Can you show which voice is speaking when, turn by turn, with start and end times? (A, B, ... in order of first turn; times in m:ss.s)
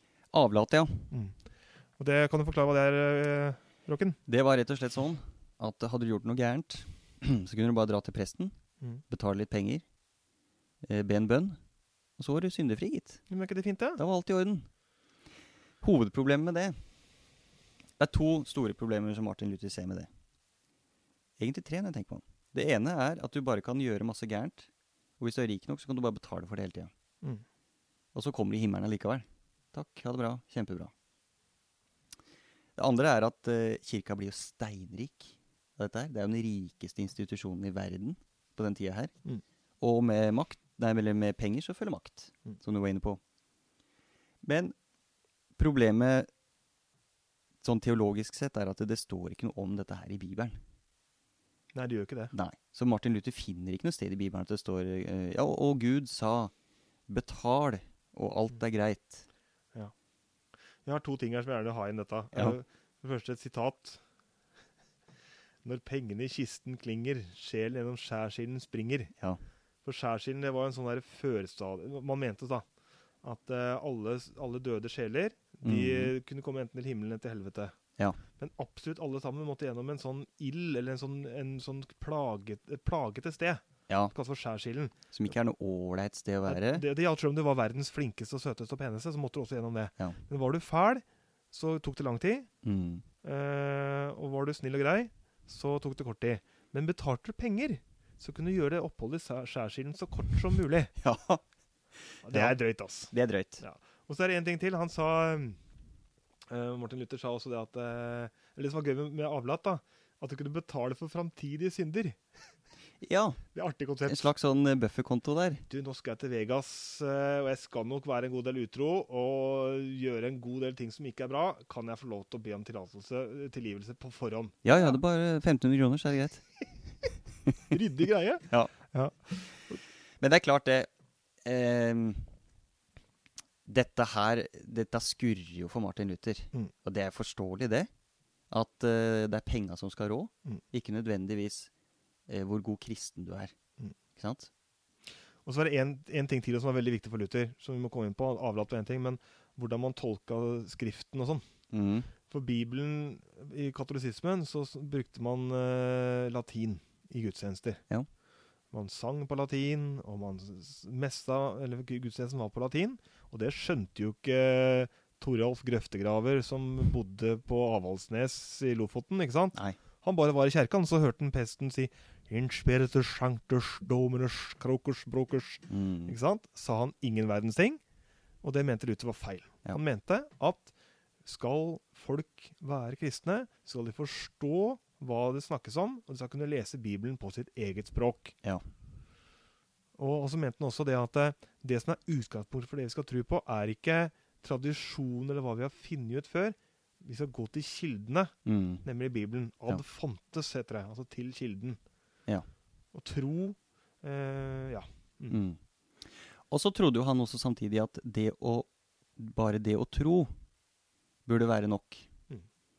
0:00.3-0:01.1 A
0:02.0-0:04.2 B
0:04.3-0:08.5 A
0:09.1-0:09.8 A
0:10.8-0:11.6 A
0:12.2-0:13.2 A
0:13.3-0:14.0 B
0:14.0-0:14.7 A
0:15.8-0:16.8 A
0:18.0-0:20.1 A
0:21.4-0:26.9 A
0:28.1-0:30.9 A
0:32.8-0:39.1 A
0:39.8-0:43.2 A
0:44.4-0:44.7 A
0:45.6-0:46.3 A
0:47.6-0:50.6 A
0:51.7-0:52.3 B
0:52.3-0:56.5 A
0:57.1-0:59.2 A
1:00.8-1:04.0 B
1:05.6-1:09.1 B
1:09.8-1:12.6 B
1:13.2-1:17.7 B
1:15.6-1:16.1 A
1:18.4-1:24.9 B
1:25.1-1:26.8 A
1:26.5-1:32.5 B
1:32.6-1:33.0 A
1:33.2-1:40.9 B
1:41.0-1:41.4 A
1:42.2-1:42.6 A
1:42.2-1:45.6 B
1:43.1-1:43.6 A
1:46.5-1:52.2 B
1:53.0-1:53.4 A
1:53.5-1:54.3 B
1:54.0-1:55.6 A
1:55.7-2:05.0 B
2:04.6-2:06.4 A
2:07.7-2:09.7 B
2:10.2-2:10.9 A
2:11.4-2:12.3 A
2:13.6-2:17.9 A
2:18.5-2:21.7 A
2:22.3-2:23.5 A
2:24.2-2:24.5 A
2:25.4-2:31.4 B
2:31.7-2:32.1 A
2:32.3-2:37.8 B
2:38.7-2:57.8 B
2:55.7-2:56.2 A
2:58.4-3:00.7 B
3:01.2-3:08.3 B
3:10.0-3:18.3 B
3:18.4-3:18.8 A
3:18.8-3:21.8 B
3:22.9-3:25.4 B
3:25.3-3:25.6 A
3:26.5-3:30.3 A
3:31.2-3:32.1 A